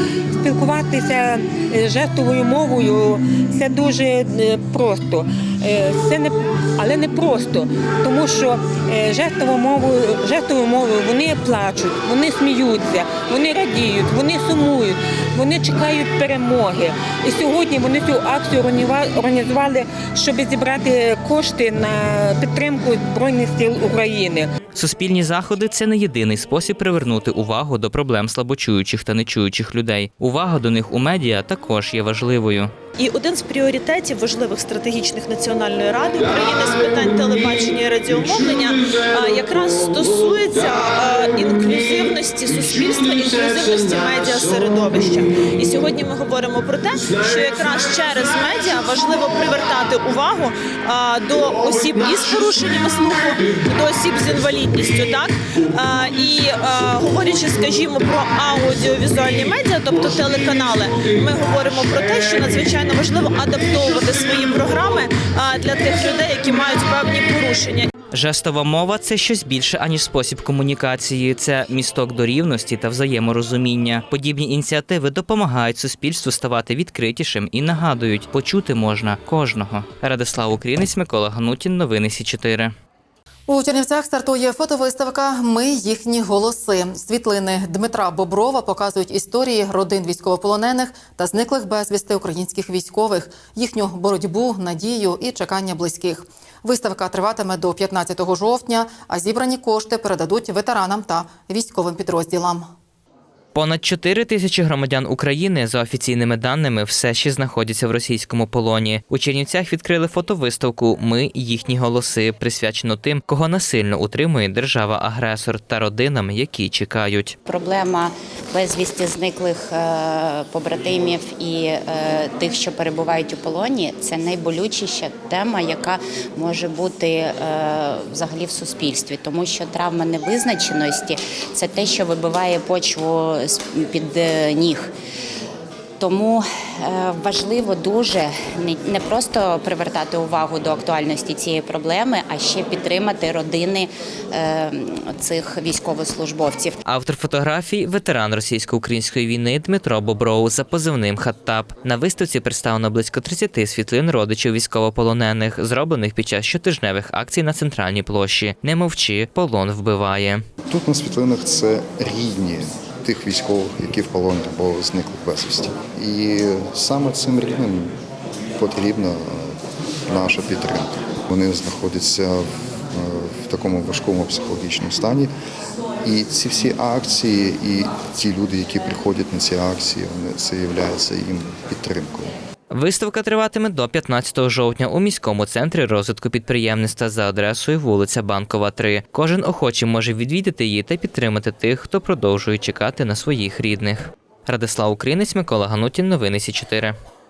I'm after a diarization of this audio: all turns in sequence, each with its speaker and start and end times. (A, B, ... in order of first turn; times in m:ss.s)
0:00.4-0:24.5 A
0:24.8-0:32.7 B
0:33.0-1:07.9 C
1:08.1-1:22.7 B
1:23.5-1:42.7 D
1:43.6-1:57.3 B
1:57.5-2:14.9 E
2:16.0-2:26.8 E
2:26.8-2:40.4 B
2:40.7-2:47.9 F
2:48.6-2:49.5 F
2:50.1-2:55.3 F
2:56.0-3:02.3 F
3:02.7-3:16.9 B